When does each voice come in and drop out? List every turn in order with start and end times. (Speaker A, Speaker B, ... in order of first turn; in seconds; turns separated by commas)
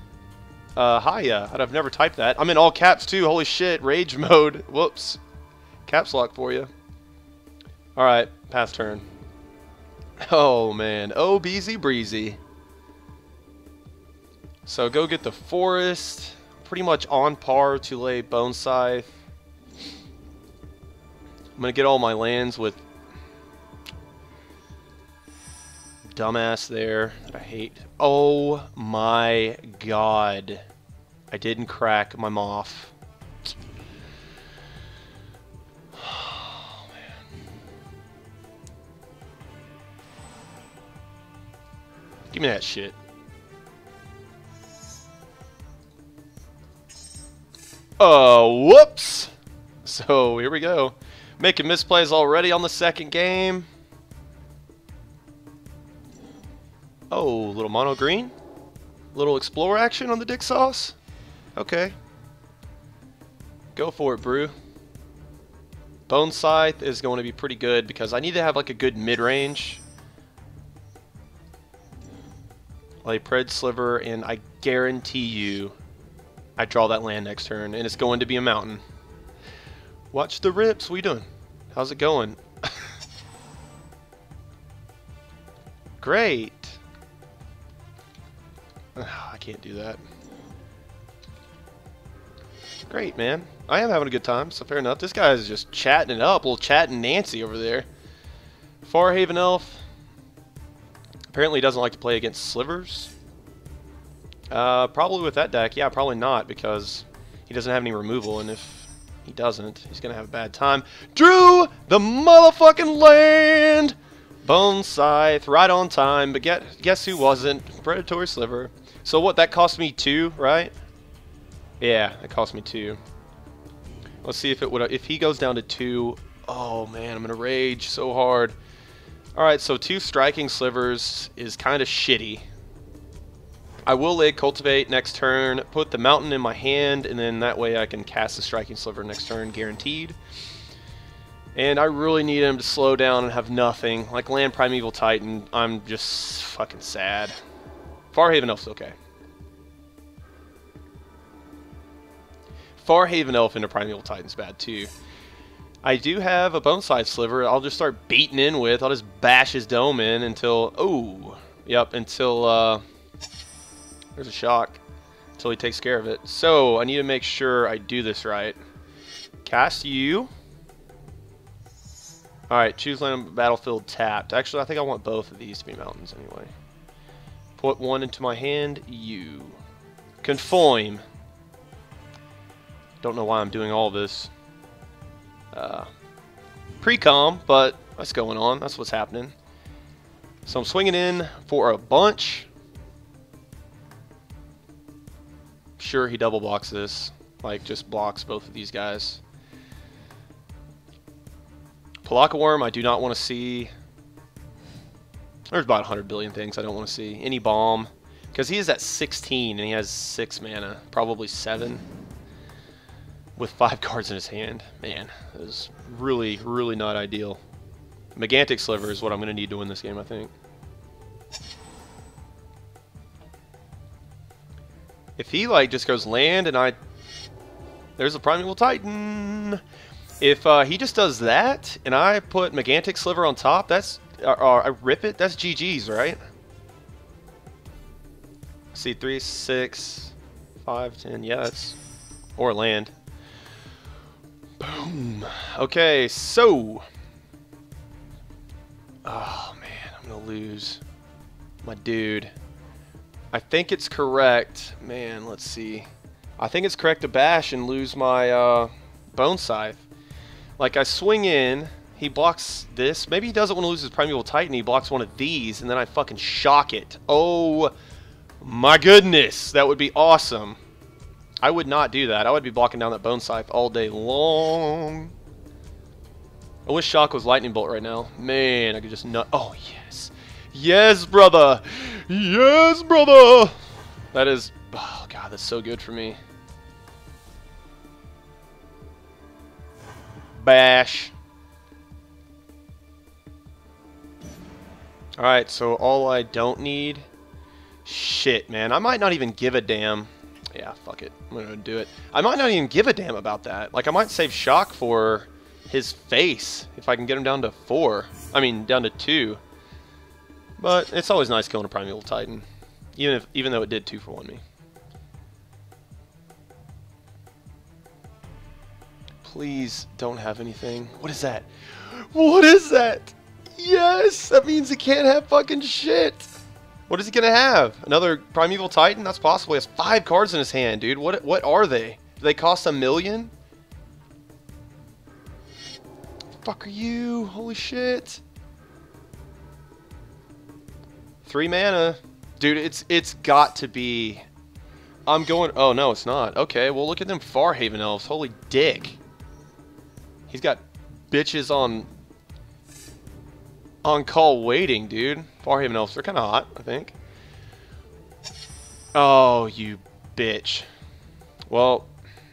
Speaker A: 0.8-5.2, Speaker A: 5.9-6.7, Speaker A: 8.0-9.1, Speaker A: 10.2-12.4, Speaker A: 14.7-19.1, Speaker A: 21.6-22.8, Speaker A: 26.1-30.6, Speaker A: 31.3-32.9, Speaker A: 36.0-36.8, Speaker A: 42.3-43.0, Speaker A: 48.0-49.3, Speaker A: 49.8-53.7, Speaker A: 57.1-58.3, Speaker A: 59.1-61.0, Speaker A: 61.6-62.0, Speaker A: 63.8-64.5, Speaker A: 66.1-69.8, Speaker A: 73.0-75.8, Speaker A: 76.6-78.8, Speaker A: 80.1-82.9, Speaker A: 86.0-86.8, Speaker A: 89.0-90.0, Speaker A: 92.9-97.9, Speaker A: 98.8-99.8, Speaker A: 101.3-103.1, Speaker A: 104.5-120.7, Speaker A: 121.8-123.0, Speaker A: 124.2-128.6, Speaker A: 129.4-132.5, Speaker A: 133.9-140.2, Speaker A: 141.6-147.4, Speaker A: 148.1-148.9, Speaker A: 152.8-154.9, Speaker A: 155.8-162.8, Speaker A: 164.2-164.8, Speaker A: 165.4-168.6, Speaker A: 169.4-170.3, Speaker A: 172.5-176.5, Speaker A: 177.6-179.6, Speaker A: 180.2-181.0, Speaker A: 183.0-184.3, Speaker A: 185.5-185.9, Speaker A: 186.8-189.3, Speaker A: 190.4-192.5, Speaker A: 195.8-199.2, Speaker A: 202.0-203.7, Speaker A: 205.5-211.8, Speaker A: 213.4-217.4, Speaker A: 218.2-220.3, Speaker A: 225.2-226.8, Speaker A: 228.0-229.6, Speaker A: 230.2-236.2, Speaker A: 238.7-241.8, Speaker A: 242.4-242.9, Speaker A: 244.6-246.9, Speaker A: 249.1-250.8, Speaker A: 251.6-252.3, Speaker A: 253.3-259.9, Speaker A: 260.6-267.7, Speaker A: 268.4-270.6, Speaker A: 271.4-275.1, Speaker A: 276.7-283.6, Speaker A: 284.1-286.2, Speaker A: 290.3-291.1, Speaker A: 295.2-297.1, Speaker A: 297.9-309.4, Speaker A: 310.6-312.4, Speaker A: 313.0-314.4, Speaker A: 319.2-326.3, Speaker A: 326.9-333.3, Speaker A: 336.4-338.2, Speaker A: 341.2-344.2, Speaker A: 345.1-349.0, Speaker A: 350.3-351.9, Speaker A: 353.8-356.9, Speaker A: 358.9-360.7, Speaker A: 361.5-361.9